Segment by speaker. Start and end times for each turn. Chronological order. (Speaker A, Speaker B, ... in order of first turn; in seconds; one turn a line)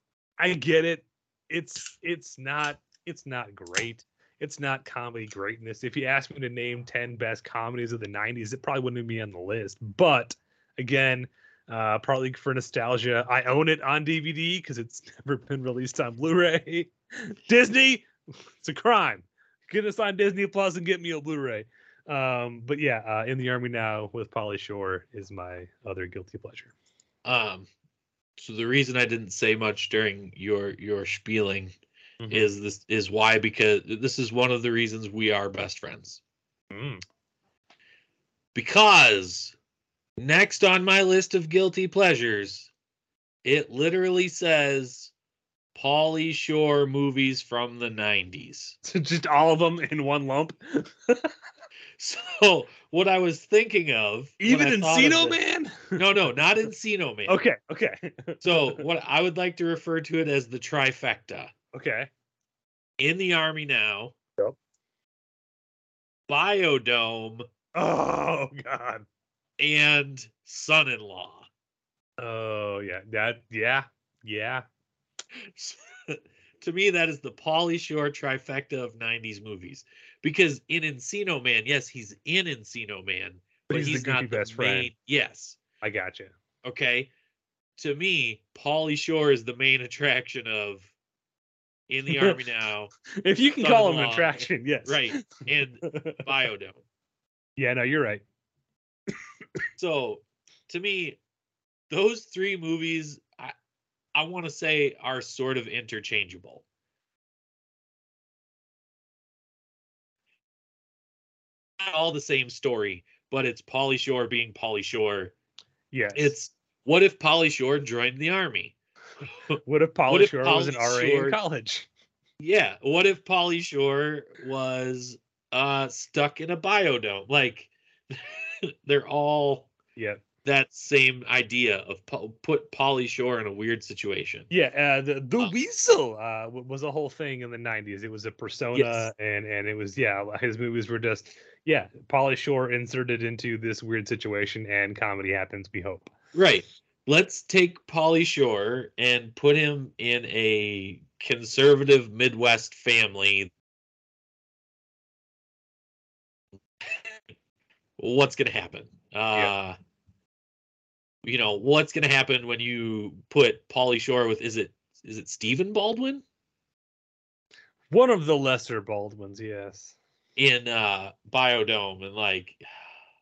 Speaker A: 0.4-18.1
Speaker A: 18.6-26.7
Speaker B: 27.2-27.7
Speaker B: 28.4-31.7
Speaker A: 32.2-32.5
Speaker B: 32.3-36.2
Speaker A: 36.7-37.0
Speaker B: 38.5-39.5
Speaker B: 40.2-42.7
Speaker B: 43.4-45.1
Speaker B: 45.7-48.8
Speaker A: 48.8-51.3
Speaker B: 52.0-55.4
Speaker A: 54.4-56.0
Speaker B: 55.9-57.4
Speaker A: 57.3-58.8
Speaker B: 58.4-61.5
Speaker A: 61.7-62.1
Speaker B: 63.0-64.1
Speaker B: 66.3-67.5
Speaker A: 67.7-69.0
Speaker B: 69.6-71.5
Speaker A: 72.2-74.6
Speaker B: 75.3-85.6
Speaker A: 83.7-84.9
Speaker A: 85.8-86.3
Speaker B: 86.6-87.1
Speaker B: 87.8-90.9
Speaker B: 91.9-92.9
Speaker A: 93.2-96.2
Speaker B: 93.6-96.8
Speaker A: 97.6-98.2
Speaker B: 99.8-101.2
Speaker B: 101.9-103.5
Speaker B: 104.1-106.6
Speaker B: 111.8-115.3
Speaker A: 115.9-116.3
Speaker B: 116.1-118.7
Speaker A: 119.6-121.9
Speaker B: 120.1-121.4
Speaker B: 122.4-129.7
Speaker A: 129.9-130.2
Speaker B: 130.4-134.5
Speaker A: 134.5-146.1
Speaker B: 138.7-139.1
Speaker B: 146.3-153.5
Speaker B: 158.0-159.8
Speaker B: 161.2-166.2
Speaker A: 167.9-169.9
Speaker B: 170.3-172.6